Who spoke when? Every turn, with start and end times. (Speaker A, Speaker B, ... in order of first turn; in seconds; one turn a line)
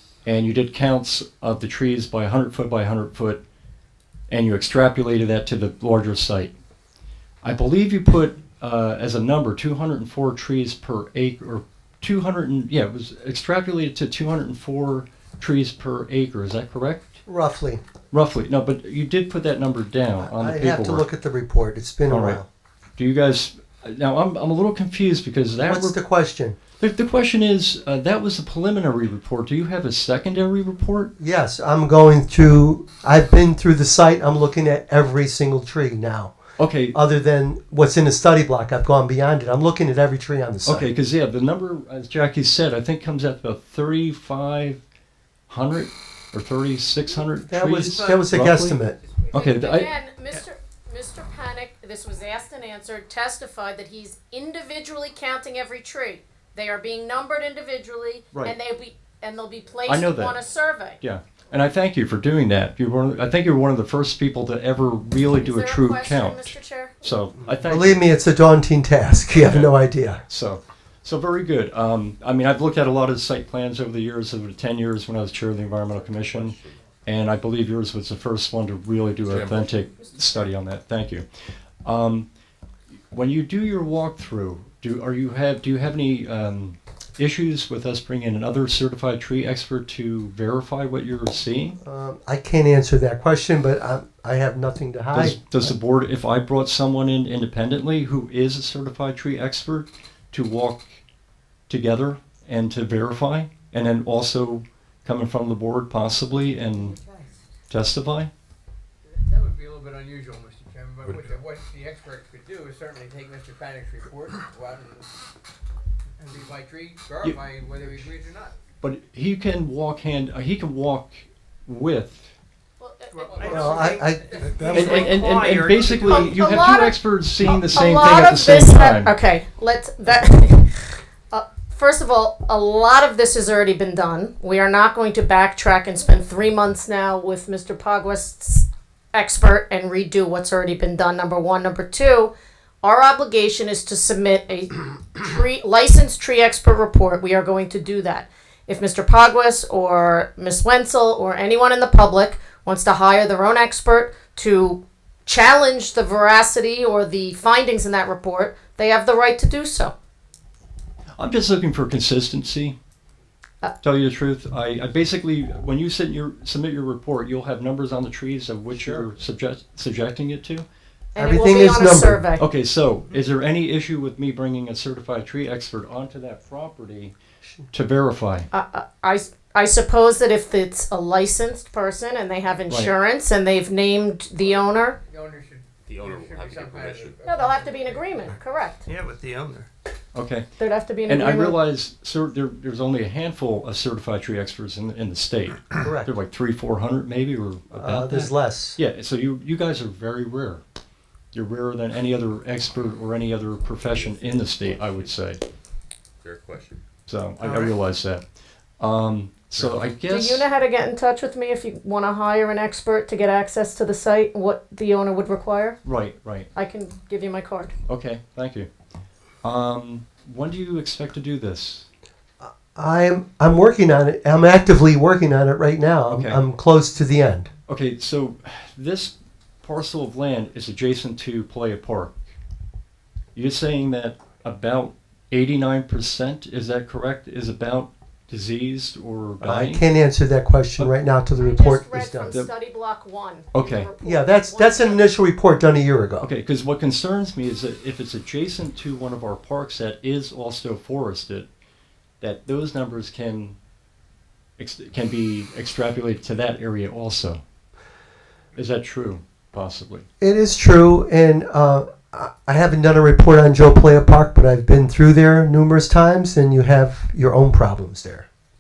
Speaker A: 0.2-3.4
Speaker A: 4.3-6.5
Speaker A: 7.4-17.2
Speaker B: 17.3-17.8
Speaker A: 18.1-21.1
Speaker B: 20.2-22.4
Speaker A: 22.1-22.4
Speaker A: 23.0-26.0
Speaker B: 25.6-26.6
Speaker A: 26.8-31.1
Speaker B: 31.2-36.3
Speaker A: 36.6-37.0
Speaker B: 36.9-40.9
Speaker A: 40.6-44.8
Speaker A: 45.5-48.8
Speaker B: 47.5-49.0
Speaker C: 47.8-48.2
Speaker D: 49.0-49.4
Speaker E: 49.3-61.0
Speaker A: 49.3-49.9
Speaker A: 59.9-60.4
Speaker A: 61.0-68.0
Speaker E: 65.4-67.0
Speaker B: 67.5-70.2
Speaker A: 69.3-69.7
Speaker A: 70.3-81.2
Speaker F: 75.9-76.8
Speaker F: 79.2-79.8
Speaker A: 81.8-82.2
Speaker A: 83.1-91.8
Speaker B: 91.8-95.7
Speaker A: 95.1-101.0
Speaker A: 101.7-107.0
Speaker A: 107.7-108.3
Speaker D: 109.0-115.1
Speaker F: 111.1-111.3
Speaker D: 116.3-118.6
Speaker A: 118.8-122.3
Speaker E: 122.8-124.0
Speaker C: 123.1-126.7
Speaker D: 123.2-124.7
Speaker B: 123.4-125.1
Speaker A: 124.7-129.1
Speaker E: 125.7-159.9
Speaker A: 161.2-162.8
Speaker A: 163.8-170.6
Speaker B: 168.7-169.1
Speaker E: 171.1-172.4
Speaker B: 171.2-172.2
Speaker A: 172.4-177.1
Speaker A: 177.7-178.5
Speaker E: 178.5-185.0
Speaker D: 184.4-188.7
Speaker F: 185.8-187.3
Speaker E: 187.2-188.8
Speaker C: 188.8-189.7
Speaker A: 190.1-190.4
Speaker E: 190.6-191.6
Speaker A: 191.1-200.6
Speaker B: 195.8-196.1
Speaker B: 197.7-198.8
Speaker A: 201.3-205.4
Speaker F: 202.7-205.1
Speaker F: 206.2-206.8
Speaker A: 207.1-208.2
Speaker C: 207.4-207.7
Speaker A: 208.8-210.4
Speaker F: 209.5-209.9
Speaker E: 210.0-215.8
Speaker A: 215.8-216.5
Speaker E: 216.5-217.7
Speaker A: 217.9-218.7
Speaker A: 219.4-221.8
Speaker B: 222.4-227.5
Speaker A: 226.1-226.4
Speaker A: 227.7-232.2
Speaker A: 233.3-239.8
Speaker B: 239.4-242.3
Speaker E: 241.4-245.1
Speaker A: 243.5-243.9
Speaker B: 244.0-246.3
Speaker A: 246.2-251.5
Speaker A: 252.2-253.6
Speaker A: 254.6-257.4
Speaker A: 258.5-260.1
Speaker B: 260.2-268.2